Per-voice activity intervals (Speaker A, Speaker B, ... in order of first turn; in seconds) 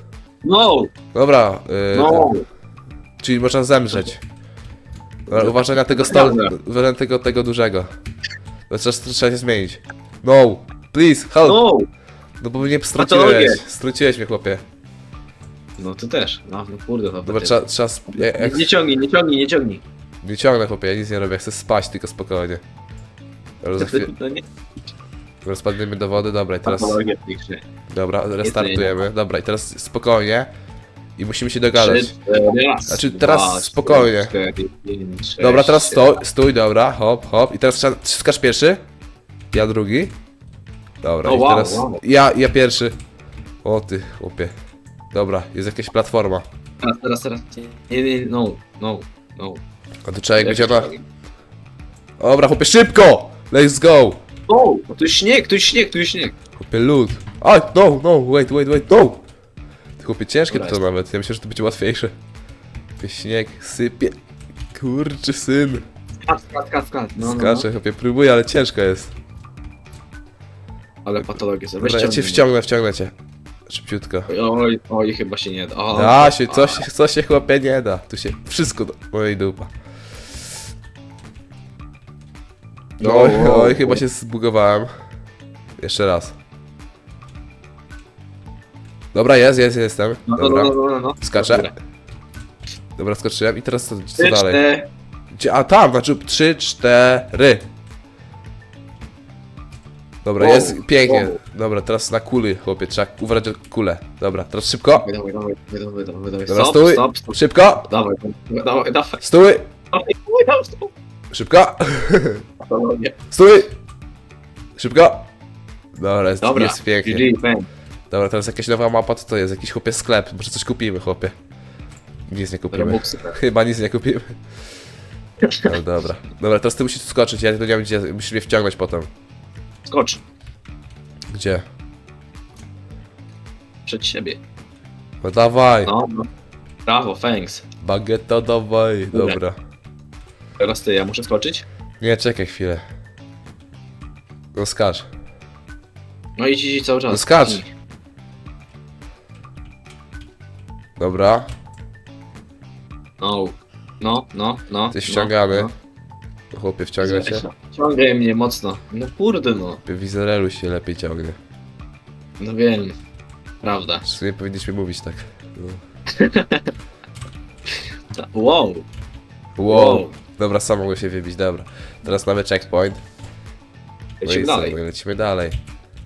Speaker A: 0.4-0.9, 1.9-2.4, 5.3-6.5, 11.4-11.9, 13.0-13.6, 15.8-17.6, 18.1-19.8, 23.8-24.4, 26.6-27.6, 28.4-29.0, 31.7-36.0, 41.2-42.0, 46.8-49.6, 50.4-51.0, 54.5-56.3, 60.5-60.8, 66.2-67.7, 71.0-72.5, 74.3-76.8, 83.0-84.0, 90.3-91.7, 94.2-94.9, 100.4-101.4, 104.9-109.2, 109.9-110.9, 112.6-113.2, 116.4-117.7, 122.7-123.3, 129.8-130.2, 133.8-134.4, 135.8-136.3, 136.8-137.6, 139.1-139.4, 140.6-141.6, 146.4-147.7, 153.2-155.7, 157.0-159.8, 162.4-162.9, 163.6-164.0, 166.1-166.7, 168.1-168.8, 169.7-170.1, 174.2-174.8
Speaker B: 1.1-2.3, 3.2-4.2, 5.3-7.9, 8.7-11.6, 12.4-14.6, 17.2-18.7, 20.2-22.6, 23.6-24.1, 25.4-27.0, 27.9-30.5, 31.2-32.1, 32.9-34.3, 35.4-38.8, 39.5-40.1, 41.0-42.9, 43.6-44.5, 45.1-46.4, 50.1-50.9, 52.2-54.2, 56.6-59.2, 60.0-62.1, 63.0-64.2, 64.7-65.8, 67.2-69.1, 71.2-73.1, 73.7-74.3, 75.9-79.7, 83.0-84.9, 85.8-86.3, 89.1-91.7, 93.0-94.6, 95.3-97.6, 100.2-105.1, 106.5-107.9, 109.2-109.7, 111.3-112.4, 113.3-113.7, 114.8-115.3, 116.0-117.3, 118.1-121.3, 122.3-124.4, 125.6-129.1, 131.3-131.6, 135.2-135.9, 137.8-139.6, 142.0-142.8, 144.5-145.1, 147.1-147.6, 151.0-151.5, 154.9-155.7, 156.5-157.4, 159.8-161.4, 164.0-165.8, 169.6-173.0, 174.2-175.6